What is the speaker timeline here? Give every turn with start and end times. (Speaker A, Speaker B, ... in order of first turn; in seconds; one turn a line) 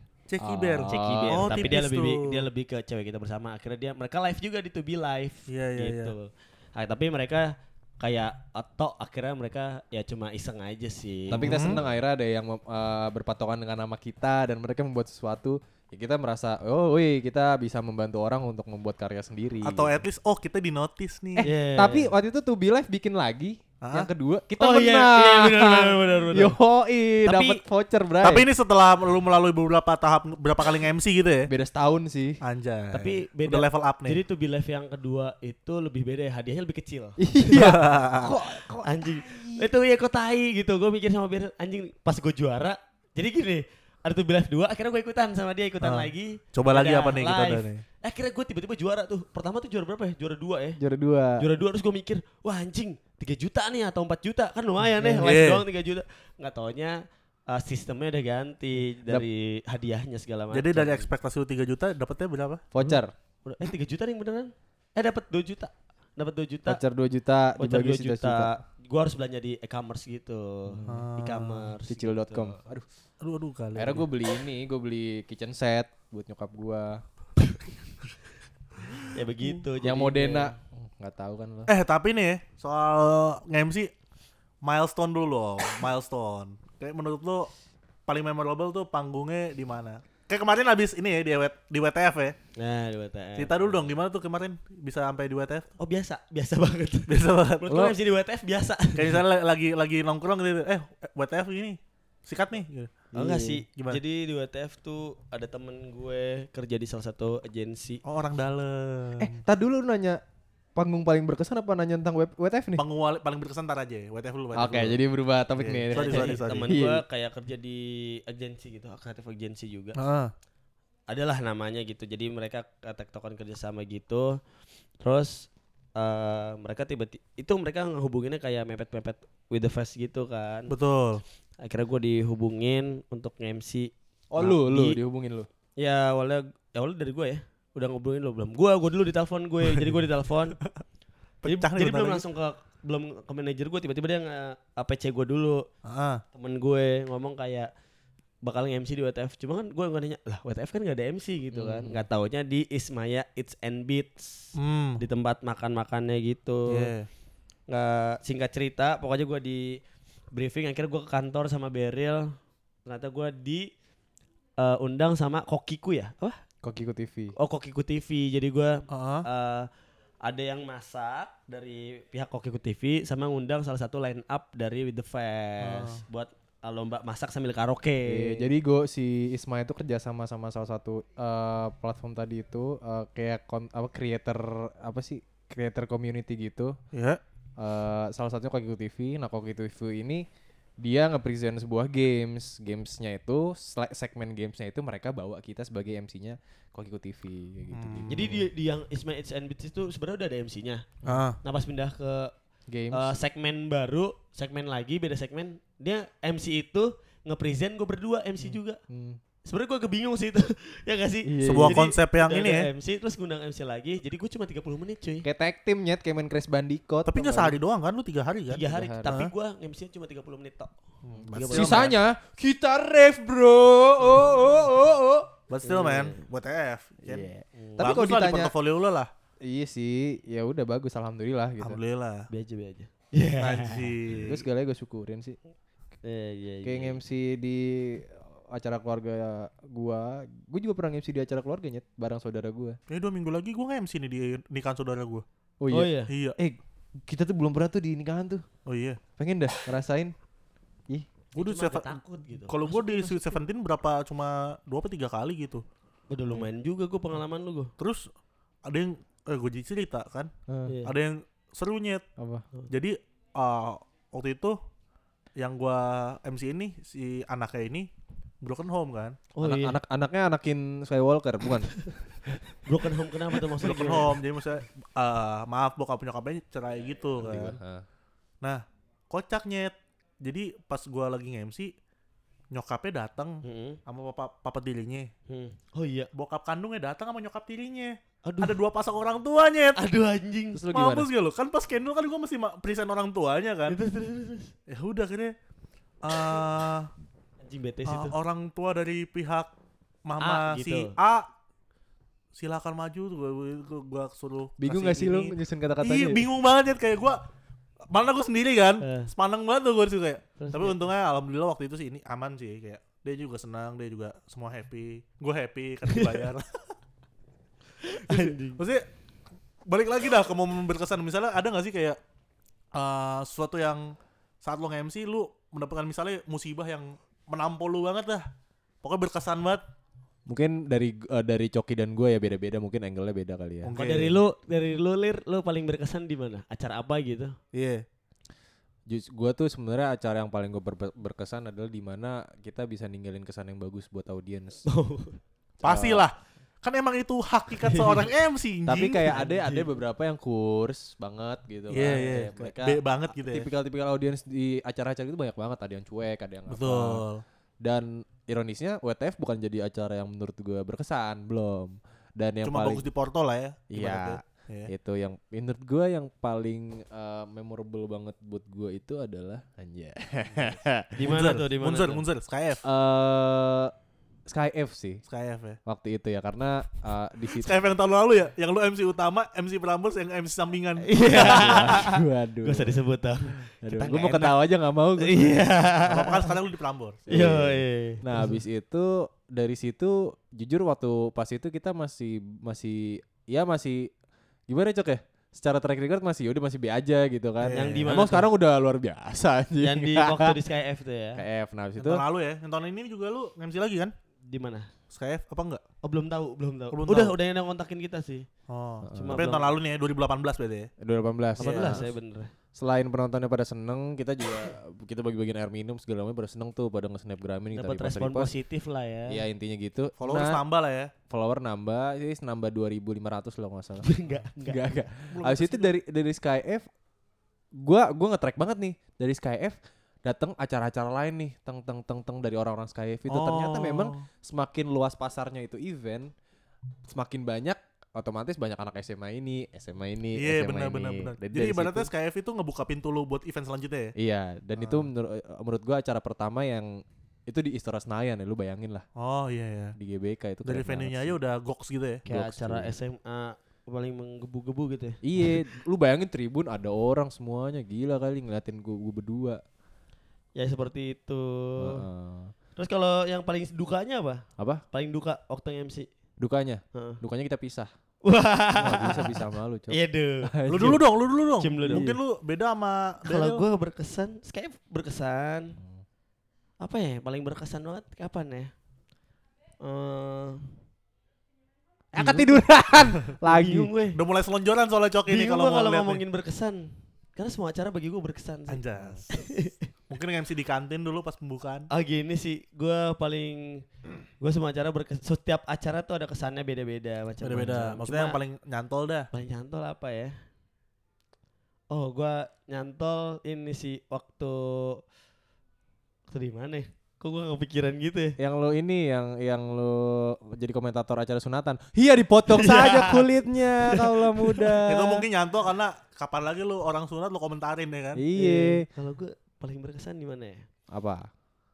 Speaker A: 0.3-2.4
Speaker B: 0.4-1.7
Speaker C: 0.9-11.9
Speaker A: 5.5-6.1
Speaker B: 11.3-20.0
Speaker A: 11.3-11.8
Speaker A: 19.6-21.5
Speaker B: 21.4-28.4
Speaker C: 21.4-22.1
Speaker A: 23.8-24.1
Speaker C: 24.6-26.6
Speaker C: 27.2-27.6
Speaker A: 28.2-31.5
Speaker B: 31.5-32.4
Speaker A: 32.4-34.2
Speaker C: 32.9-37.2
Speaker B: 37.2-39.7
Speaker A: 37.5-38.3
Speaker C: 38.2-50.8
Speaker A: 45.8-47.8
Speaker B: 50.8-51.5
Speaker C: 51.4-61.1
Speaker B: 55.0-55.2
Speaker A: 55.2-55.6
Speaker A: 60.5-62.7
Speaker B: 62.7-63.1
Speaker C: 63.4-66.8
Speaker B: 66.7-68.5
Speaker C: 67.6-72.6
Speaker B: 70.7-71.1
Speaker A: 70.8-71.7
Speaker B: 71.9-72.8
Speaker A: 73.2-74.0
Speaker B: 73.7-77.0
Speaker C: 79.0-80.5
Speaker B: 79.8-81.7
Speaker A: 81.7-83.9
Speaker A: 84.6-87.5
Speaker A: 88.1-92.3
Speaker C: 92.5-93.8
Speaker A: 93.4-95.7
Speaker C: 95.8-99.2
Speaker A: 97.1-97.9
Speaker A: 98.9-103.1
Speaker B: 103.1-103.6
Speaker C: 103.1-108.0
Speaker A: 103.8-104.0
Speaker A: 108.0-109.4
Speaker B: 109.2-110.2
Speaker B: 110.8-112.8
Speaker A: 112.8-115.0
Speaker B: 114.5-117.0
Speaker A: 115.5-116.7
Speaker C: 115.9-120.0
Speaker A: 120.0-120.3
Speaker C: 121.1-124.4
Speaker C: 125.0-130.7
Speaker A: 130.7-131.2
Speaker C: 131.6-135.0
Speaker B: 134.3-135.5
Speaker C: 135.8-140.6
Speaker A: 141.4-142.2
Speaker C: 141.4-145.6
Speaker A: 145.8-146.2
Speaker C: 146.3-147.7
Speaker C: 148.4-156.9
Speaker B: 151.5-152.1
Speaker A: 154.6-155.0
Speaker A: 156.7-157.1
Speaker C: 157.7-159.8
Speaker C: 160.3-163.7
Speaker C: 164.6-166.4
Speaker B: 166.6-167.3
Speaker C: 167.3-169.7
Speaker A: 168.9-169.2
Speaker C: 170.2-178.5
Speaker A: 175.6-176.0
Speaker B: 178.1-186.8
Speaker A: 186.9-187.2
Speaker B: 187.6-190.2
Speaker B: 190.8-198.5
Speaker A: 197.7-198.3
Speaker C: 198.1-200.8
Speaker A: 201.1-201.4
Speaker C: 201.4-202.3
Speaker B: 202.7-203.2
Speaker C: 202.9-208.8
Speaker B: 208.4-209.2
Speaker C: 209.4-215.3
Speaker B: 211.2-211.8
Speaker A: 211.4-212.7
Speaker B: 215.2-217.6
Speaker A: 217.1-219.3
Speaker C: 218.5-220.7
Speaker B: 218.7-219.2
Speaker A: 221.0-221.9
Speaker B: 221.2-225.3
Speaker C: 221.3-222.0
Speaker A: 225.5-229.1
Speaker C: 225.6-226.2
Speaker B: 227.0-228.5
Speaker C: 227.6-227.9
Speaker B: 229.4-231.8
Speaker A: 231.6-232.3
Speaker C: 232.3-233.9
Speaker A: 233.4-234.4
Speaker B: 234.2-235.4
Speaker C: 236.0-237.0
Speaker B: 236.6-242.8
Speaker A: 242.9-245.2
Speaker B: 245.6-248.4
Speaker C: 245.7-246.1
Speaker A: 246.1-246.4
Speaker A: 248.7-249.0
Speaker B: 249.2-250.1
Speaker C: 251.3-253.4
Speaker A: 251.4-255.6
Speaker C: 256.1-257.7
Speaker A: 257.8-258.1
Speaker A: 258.6-260.3
Speaker B: 260.5-260.7
Speaker C: 260.7-260.9
Speaker A: 260.8-262.0
Speaker B: 262.2-262.4
Speaker A: 262.7-264.6
Speaker A: 265.4-267.9
Speaker A: 268.4-269.2
Speaker C: 269.3-269.8
Speaker B: 269.4-272.4
Speaker C: 272.6-274.1
Speaker A: 273.6-277.6
Speaker B: 277.2-277.8
Speaker A: 278.4-281.7
Speaker A: 282.5-285.1
Speaker C: 283.4-283.8
Speaker C: 285.3-286.1
Speaker A: 286.1-289.8
Speaker C: 288.2-288.6
Speaker C: 289.8-290.6
Speaker B: 290.5-291.1
Speaker A: 290.7-293.8
Speaker C: 293.7-294.5
Speaker A: 294.7-295.4
Speaker A: 296.0-296.9
Speaker C: 297.4-298.1
Speaker A: 297.9-299.5
Speaker A: 300.1-301.3
Speaker C: 300.2-300.9
Speaker A: 302.4-307.2
Speaker B: 304.6-306.2
Speaker A: 307.9-316.7
Speaker C: 308.8-309.1
Speaker C: 310.4-310.8
Speaker C: 315.9-316.3
Speaker C: 317.8-318.6
Speaker A: 318.1-318.9
Speaker A: 319.6-322.0
Speaker A: 322.7-328.2
Speaker A: 328.8-329.6
Speaker B: 330.3-333.7
Speaker A: 333.6-334.2
Speaker C: 333.7-337.4
Speaker A: 337.5-337.8
Speaker B: 338.9-344.6
Speaker C: 344.6-345.2
Speaker B: 345.6-346.1
Speaker A: 345.6-349.1
Speaker C: 347.6-348.1
Speaker B: 348.7-357.0
Speaker C: 349.1-349.7
Speaker A: 351.7-353.5
Speaker A: 356.5-357.2
Speaker B: 357.6-362.9
Speaker A: 362.4-364.7
Speaker B: 363.7-370.9
Speaker C: 370.9-372.0
Speaker A: 371.0-372.6
Speaker B: 372.6-373.7
Speaker B: 374.3-375.0
Speaker A: 375.1-375.6
Speaker B: 375.6-377.5
Speaker A: 377.3-381.8
Speaker C: 380.8-384.4
Speaker B: 381.1-382.8
Speaker B: 383.6-385.4
Speaker C: 385.0-386.3
Speaker A: 385.9-387.2
Speaker C: 387.1-388.3
Speaker B: 387.1-393.9
Speaker B: 394.5-400.4
Speaker A: 397.4-397.9
Speaker C: 397.5-398.3
Speaker C: 399.6-401.2
Speaker B: 401.1-402.0
Speaker A: 401.8-403.9
Speaker C: 404.3-404.7
Speaker A: 404.9-405.6
Speaker C: 405.8-408.3
Speaker A: 406.7-407.1
Speaker A: 408.5-410.7
Speaker B: 408.8-409.3
Speaker C: 408.9-409.6
Speaker B: 410.8-411.9
Speaker C: 411.4-412.3
Speaker A: 411.4-411.8
Speaker B: 412.5-418.3
Speaker C: 417.5-419.2
Speaker B: 419.1-420.4
Speaker A: 420.0-420.9
Speaker B: 421.1-423.9
Speaker C: 423.8-424.7
Speaker B: 424.4-426.6
Speaker A: 425.1-425.8
Speaker B: 427.6-436.1
Speaker A: 433.1-434.0
Speaker B: 436.9-441.9
Speaker A: 440.1-443.9
Speaker B: 443.9-448.9
Speaker A: 444.6-444.9
Speaker A: 449.0-449.8
Speaker B: 449.8-451.2
Speaker A: 450.4-452.1
Speaker B: 452.1-452.7
Speaker C: 452.1-455.0
Speaker B: 455.0-459.4
Speaker C: 460.4-461.8
Speaker B: 461.6-462.3
Speaker C: 462.6-465.9
Speaker B: 464.4-464.6
Speaker B: 466.2-467.7
Speaker C: 466.7-467.0
Speaker C: 468.0-470.8
Speaker B: 468.6-470.9
Speaker A: 470.5-473.4
Speaker C: 471.4-471.9
Speaker B: 471.7-472.0
Speaker C: 473.0-475.6
Speaker C: 476.6-478.5
Speaker C: 479.6-480.5
Speaker B: 481.9-483.7
Speaker C: 482.0-482.3
Speaker C: 483.2-484.0
Speaker A: 483.9-486.0
Speaker C: 485.1-489.7
Speaker A: 488.5-489.1
Speaker A: 489.9-491.7
Speaker C: 491.7-493.6
Speaker C: 494.2-498.2
Speaker A: 497.2-499.1
Speaker C: 499.1-500.2
Speaker C: 501.7-504.8
Speaker C: 506.1-508.2
Speaker B: 508.2-515.1
Speaker C: 512.3-513.1
Speaker C: 513.6-514.6
Speaker A: 514.6-518.0
Speaker B: 517.9-518.6
Speaker C: 518.1-520.5
Speaker B: 520.7-521.1